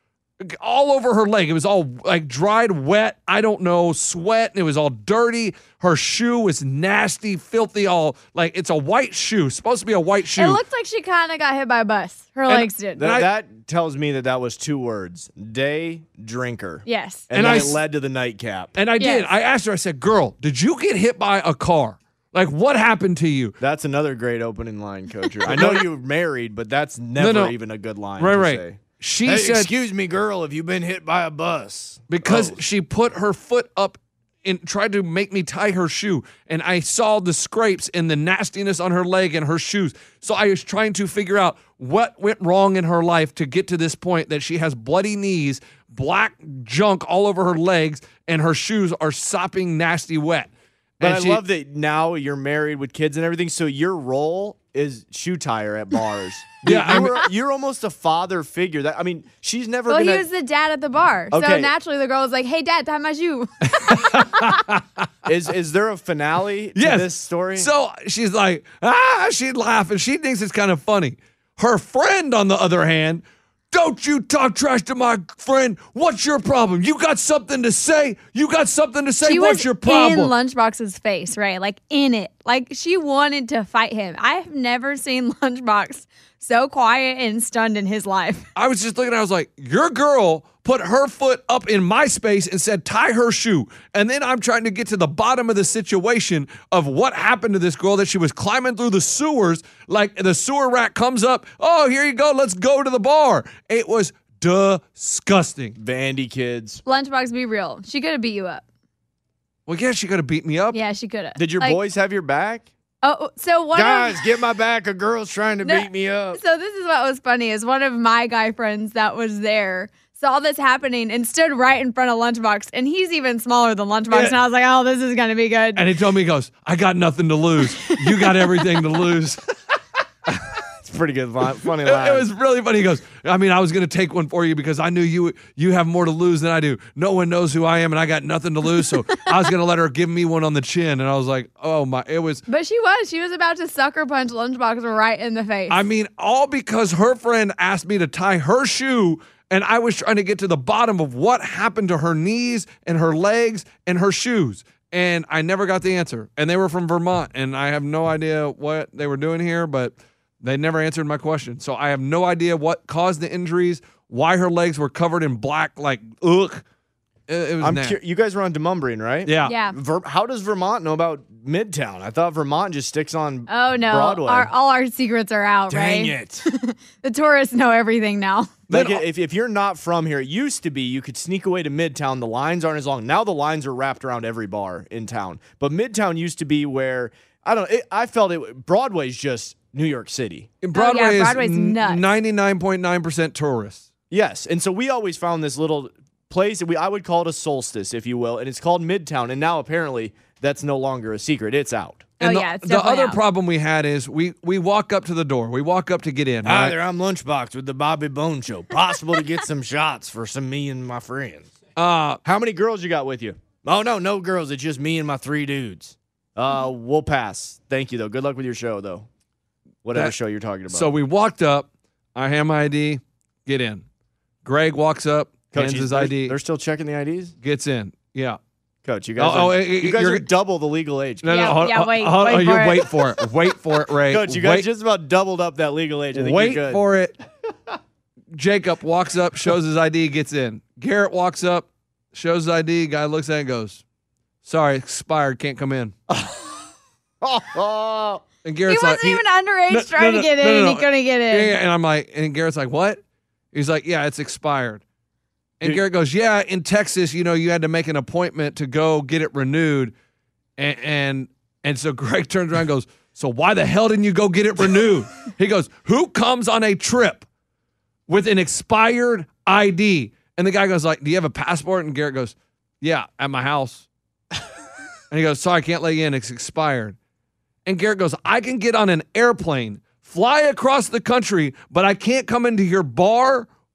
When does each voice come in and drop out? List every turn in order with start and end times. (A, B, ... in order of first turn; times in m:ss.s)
0:00.4-0:10.6 A
0:10.4-0:13.0 B
0:12.5-0:13.3 A
0:13.0-0:18.7 C
0:16.8-0:17.3 B
0:17.3-0:17.8 A
0:18.8-0:23.6 A
0:19.0-0:19.3 B
0:23.6-0:32.6 C
0:25.4-0:25.9 A
0:27.2-0:27.5 A
0:28.2-0:29.7 A
0:32.1-0:51.4 A
0:51.0-1:00.2 C
0:56.6-0:57.2 A
0:59.9-1:04.6 B
1:01.3-1:01.7 C
1:03.9-1:04.8 A
1:05.2-1:07.7 C
1:06.7-1:20.3 A
1:19.2-1:28.4 B
1:28.6-1:45.8 A
1:45.8-1:46.8 C
1:46.8-1:48.6 B
1:49.7-1:50.8 A
1:50.7-1:51.8 B
1:51.4-1:52.7 C
1:53.0-1:54.2 B
1:53.7-1:56.4 C
1:55.6-2:05.8 B
2:05.7-2:09.5 A
2:07.7-2:08.4 B
2:10.8-2:12.2 C
2:11.8-2:22.4 A
2:22.5-2:25.8 B
2:25.7-2:46.6 A
2:47.3-2:48.0 A
2:47.6-2:54.5 C
2:49.2-2:49.5 A
2:49.4-2:49.8 B
2:53.5-2:58.5 B
2:55.7-2:56.4 C
2:58.7-3:10.6 C
2:58.7-2:59.0 A
3:10.6-3:13.8 A
3:10.7-3:12.0 B
3:14.1-3:22.1 C
3:22.2-3:23.2 B
3:22.2-3:26.7 A
3:26.4-3:31.5 C
3:31.8-3:32.2 A
3:32.2-3:39.1 C
3:39.8-3:40.9 C
3:40.7-3:43.8 A
3:44.4-3:46.4 A
3:45.5-3:47.3 C
3:47.4-3:48.4 A
3:48.8-3:51.5 C
3:49.2-3:50.3 A
3:51.2-3:54.7 A
3:51.3-3:52.9 B
3:54.1-3:56.8 C
3:56.1-3:57.1 A
3:58.3-4:03.8 A
4:04.4-4:05.9 A
4:06.1-4:06.5 C
4:07.2-4:08.2 C
4:08.4-4:13.0 A
4:08.7-4:11.6 B
4:13.5-4:14.8 A
4:15.6-4:19.9 A
4:20.6-4:27.2 A
4:28.1-4:33.8 A
4:35.1-4:37.0 A
4:37.6-4:43.5 A